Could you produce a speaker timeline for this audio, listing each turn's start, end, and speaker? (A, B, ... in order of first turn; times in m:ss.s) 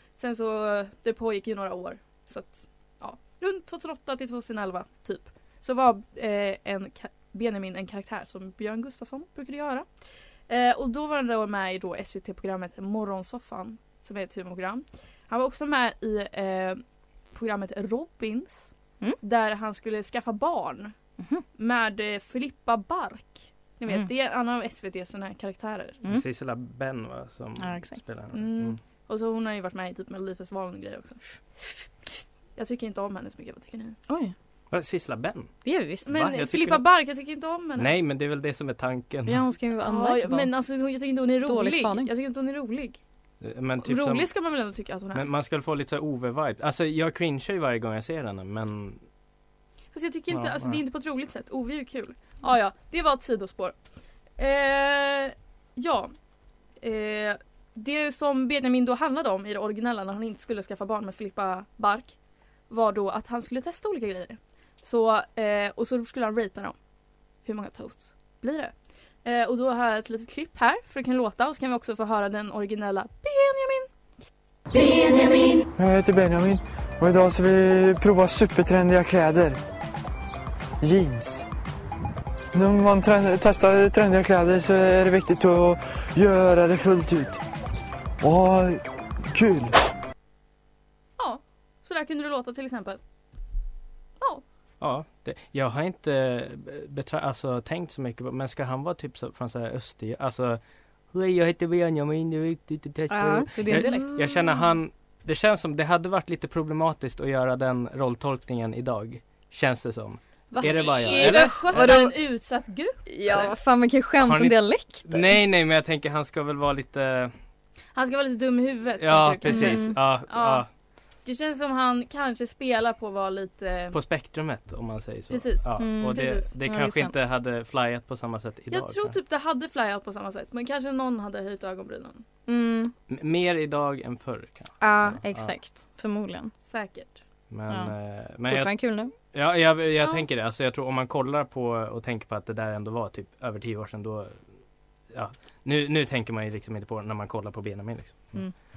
0:00.2-0:09.9 A
0:10.5-0:20.9 A
0:21.2-0:21.4 B
0:21.6-0:26.0 A
0:26.1-0:28.8 C
0:27.6-0:28.0 B
0:28.3-0:31.2 A
0:32.6-0:34.0 A
0:34.1-0:34.3 B
0:34.7-0:35.5 C
0:35.6-0:36.1 B
0:36.0-0:36.8 C
0:36.1-0:37.9 A
0:37.8-0:39.4 C
0:39.2-0:40.5 B
0:39.8-0:43.0 A
0:41.4-0:42.1 B
0:43.4-0:44.2 C
0:43.8-0:45.2 A
0:45.1-0:49.0 C
0:49.9-0:53.8 A
0:50.3-0:50.8 C
0:54.4-0:56.1 A
0:56.8-1:02.1 A
1:02.7-1:06.8 A
1:07.4-1:13.9 A
1:15.8-1:19.6 D
1:20.8-1:21.4 D
1:22.5-1:27.4 D
1:28.2-1:29.7 D
1:31.2-1:33.0 A
1:34.8-1:40.6 C
1:41.1-1:51.6 C
1:43.1-1:44.2 B
1:43.8-1:44.2 A
1:50.5-1:52.2 B
1:50.8-1:53.5 A
1:53.1-1:55.4 B
1:54.2-1:57.3 C
1:57.9-2:00.6 A
1:59.0-2:00.7 C
1:59.4-2:00.0 B
2:01.2-2:04.0 A
2:03.9-2:09.2 C
2:05.3-2:06.5 A
2:05.8-2:07.2 B
2:08.7-2:12.2 A
2:12.5-2:12.9 B
2:13.1-2:15.5 C
2:14.8-2:16.5 B
2:16.7-2:17.2 A
2:17.5-2:24.4 C
2:17.7-2:19.1 B
2:25.1-2:28.4 C